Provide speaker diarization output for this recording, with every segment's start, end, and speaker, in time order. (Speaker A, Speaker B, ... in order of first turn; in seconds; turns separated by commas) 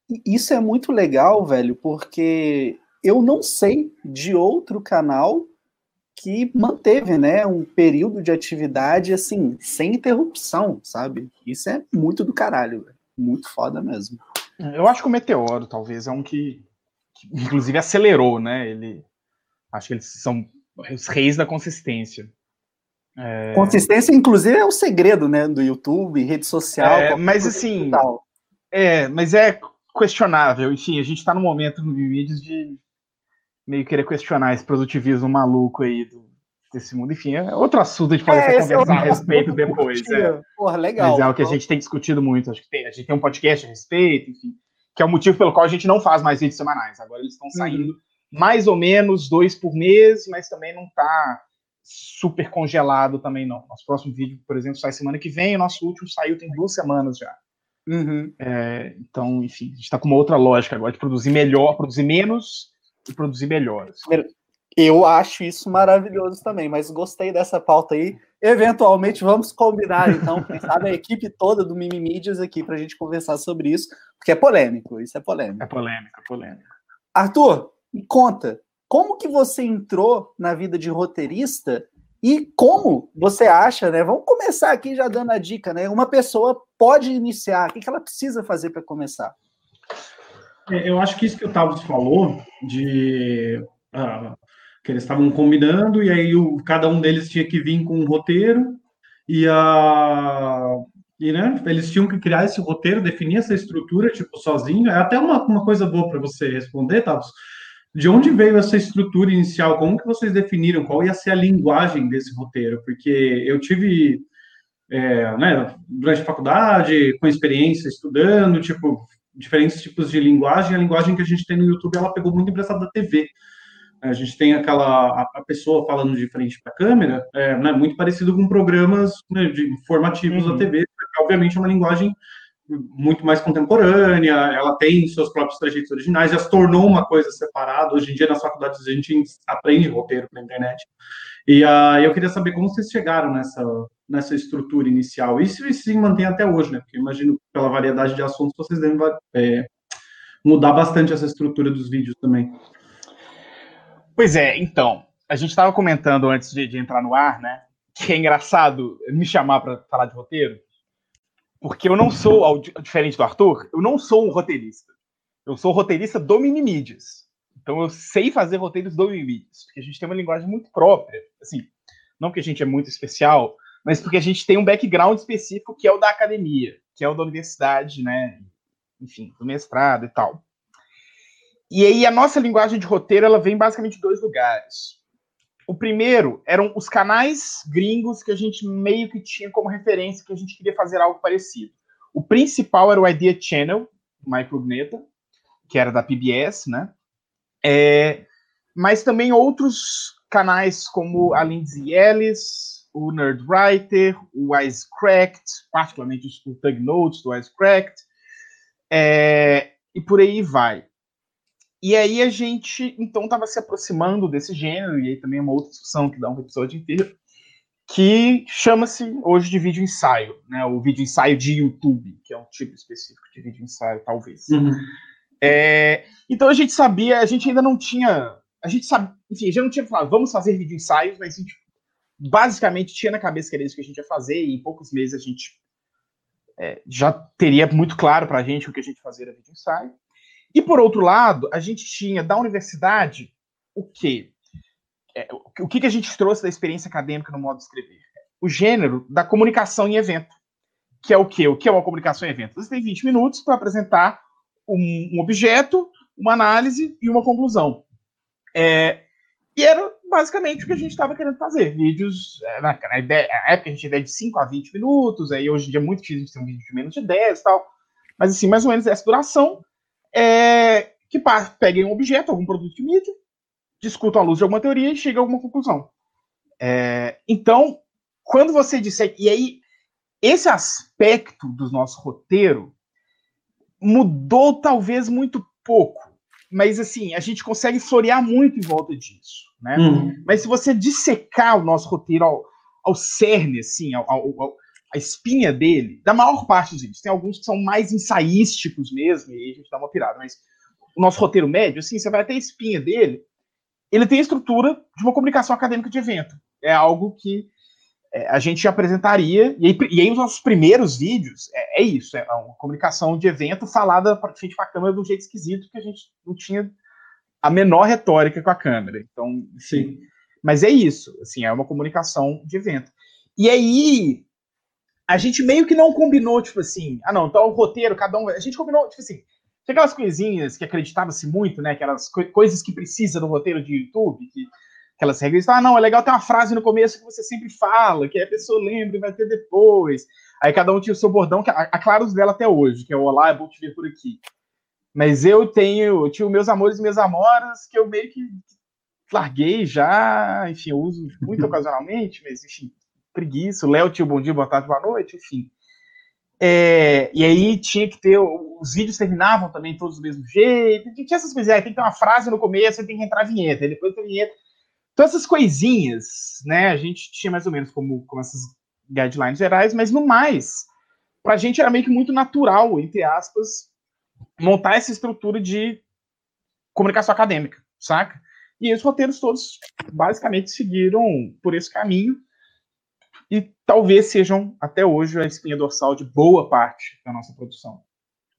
Speaker A: 0.1-5.5, Speaker A: 6.2-14.2, Speaker B: 14.6-16.6, Speaker B: 17.2-19.0, Speaker B: 19.7-22.3, Speaker B: 23.2-23.9, Speaker A: 23.5-28.2, Speaker B: 26.8-28.0, Speaker B: 28.7-32.8, Speaker B: 33.7-40.3, Speaker A: 38.3-41.6, Speaker B: 41.0-57.4, Speaker A: 47.5-47.9, Speaker A: 57.9-58.3, Speaker B: 58.4-64.1, Speaker A: 64.0-75.6, Speaker B: 75.6-76.6, Speaker A: 77.1-89.3, Speaker C: 90.7-107.3, Speaker C: 107.9-114.2, Speaker C: 114.9-123.3, Speaker C: 124.0-132.1, Speaker B: 130.3-130.7, Speaker C: 132.7-140.9, Speaker C: 141.5-149.7, Speaker C: 150.4-152.6, Speaker B: 154.2-160.6, Speaker B: 161.6-164.9, Speaker B: 165.4-178.5, Speaker B: 179.0-180.4, Speaker B: 181.7-185.0, Speaker B: 185.7-195.0, Speaker B: 195.7-196.9, Speaker B: 197.6-208.1, Speaker B: 208.9-210.9, Speaker B: 211.8-217.1, Speaker B: 217.9-224.6, Speaker C: 224.5-224.8, Speaker B: 225.4-231.6, Speaker B: 232.2-235.6, Speaker B: 236.6-239.9, Speaker B: 240.5-244.3, Speaker B: 245.1-250.3, Speaker B: 251.0-257.8, Speaker B: 258.5-259.0, Speaker B: 259.6-267.7, Speaker B: 268.2-273.1, Speaker B: 273.8-275.9, Speaker B: 276.6-279.6, Speaker B: 280.2-282.7, Speaker B: 283.8-300.4, Speaker C: 289.8-290.2, Speaker B: 300.9-303.2, Speaker B: 303.9-307.5, Speaker B: 308.1-316.7, Speaker B: 317.4-324.2, Speaker C: 319.6-320.0, Speaker B: 325.1-344.2, Speaker B: 344.9-348.4, Speaker B: 349.1-355.5, Speaker B: 356.4-364.3, Speaker B: 364.9-370.7, Speaker B: 371.2-373.7, Speaker B: 374.4-375.8, Speaker B: 376.7-382.2, Speaker B: 383.3-387.8